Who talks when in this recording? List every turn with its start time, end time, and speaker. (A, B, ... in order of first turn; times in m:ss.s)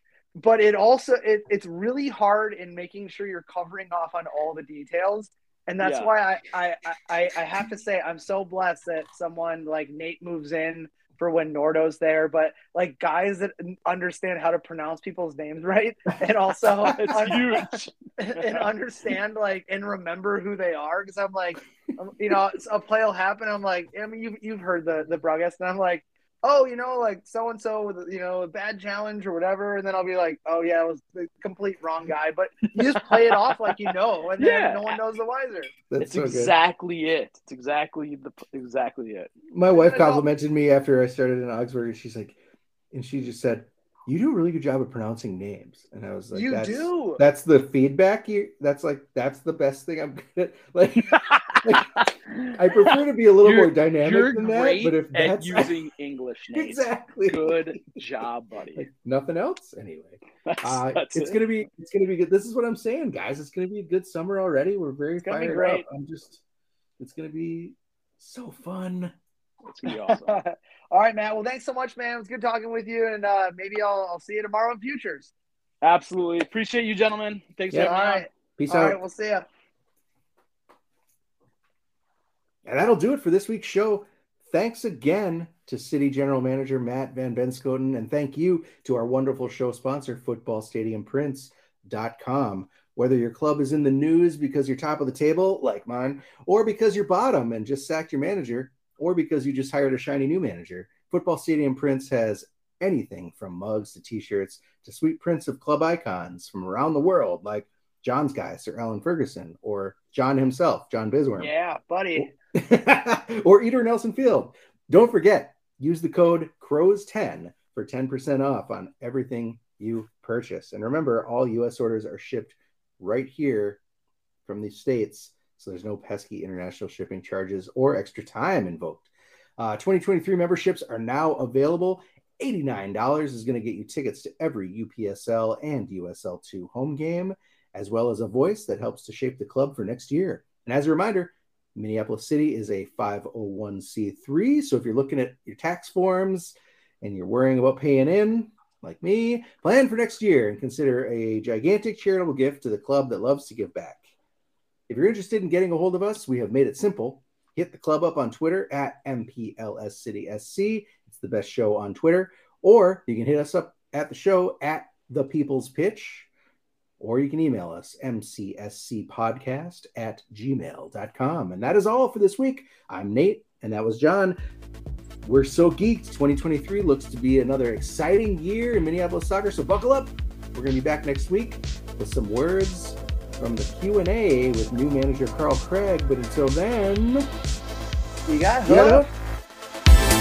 0:00.4-0:35.7 A
0:05.8-0:06.1 B
0:16.8-0:18.7 B
0:32.8-0:35.0 B
0:35.9-0:36.5 C
0:36.0-0:39.3 B
0:39.5-0:42.4 C
0:39.7-0:40.3 A
0:42.9-0:55.8 C
0:46.3-0:47.2 A
0:51.1-0:58.9 B
0:56.5-0:58.0 C
0:58.7-1:06.4 C
1:00.4-1:01.4 B
1:05.2-1:05.8 A
1:07.0-1:09.1 C
1:09.6-1:10.4 B
1:09.9-1:15.3 A
1:15.8-1:18.3 B
1:17.7-1:18.0 C
1:17.8-1:19.4 A
1:18.6-1:19.0 C
1:22.6-1:51.5 C
1:51.4-1:52.3 A
1:52.2-2:03.8 C
2:04.4-2:34.1 C
2:34.9-2:46.3 C
2:47.0-2:54.4 C
2:55.2-3:07.3 C
3:08.3-3:09.1 A
3:08.6-3:09.1 C